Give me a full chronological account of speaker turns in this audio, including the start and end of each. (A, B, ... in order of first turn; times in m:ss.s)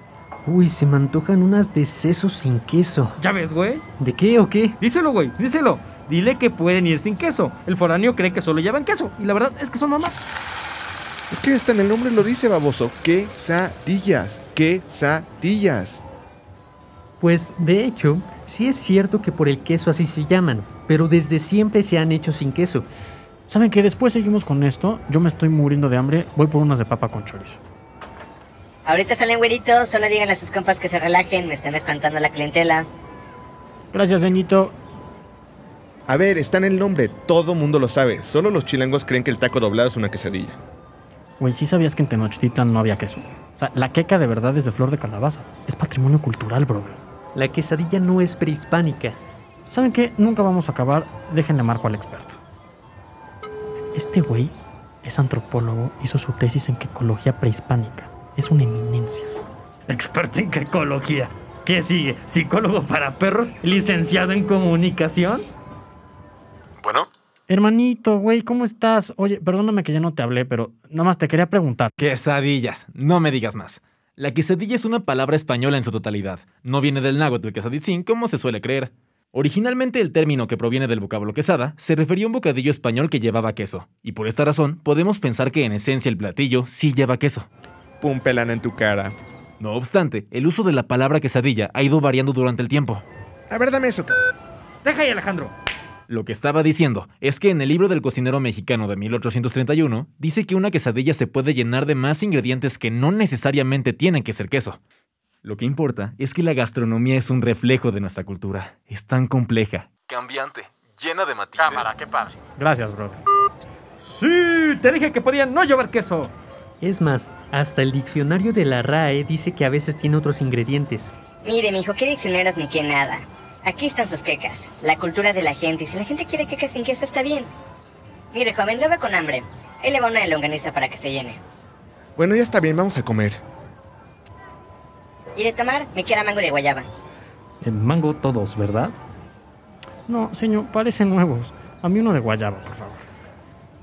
0:00.5-0:03.1 A
0:03.2-0:03.8 B
0:04.0-0:04.7 A
0:04.8-0:10.2 B
0:11.3-0:16.0 C
0:17.2-0:22.9 A
0:23.5-0:27.6 D
0:28.9-0:32.9 E
0:33.9-0:34.8 D
0:36.1-0:40.6 C
0:41.4-0:47.0 D
0:47.4-0:49.2 A
0:49.7-0:52.4 D
0:54.0-0:59.3 D
0:59.9-1:05.4 B
1:06.8-1:07.1 F
1:07.5-1:11.9 D
1:12.0-1:27.5 F
1:28.0-1:29.2 C
1:29.6-1:33.0 F
1:33.5-1:34.2 C
1:34.8-1:35.5 B
1:36.1-1:44.8 F
1:45.4-1:51.9 F
1:51.9-1:52.3 B
1:52.6-1:53.2 D
1:54.0-1:56.3 B
1:56.8-2:01.1 A
2:01.4-2:07.5 E
2:08.3-2:11.4 E
2:12.2-2:13.4 C
2:15.4-2:16.9 E
2:17.6-2:19.0 B
2:20.1-2:23.0 D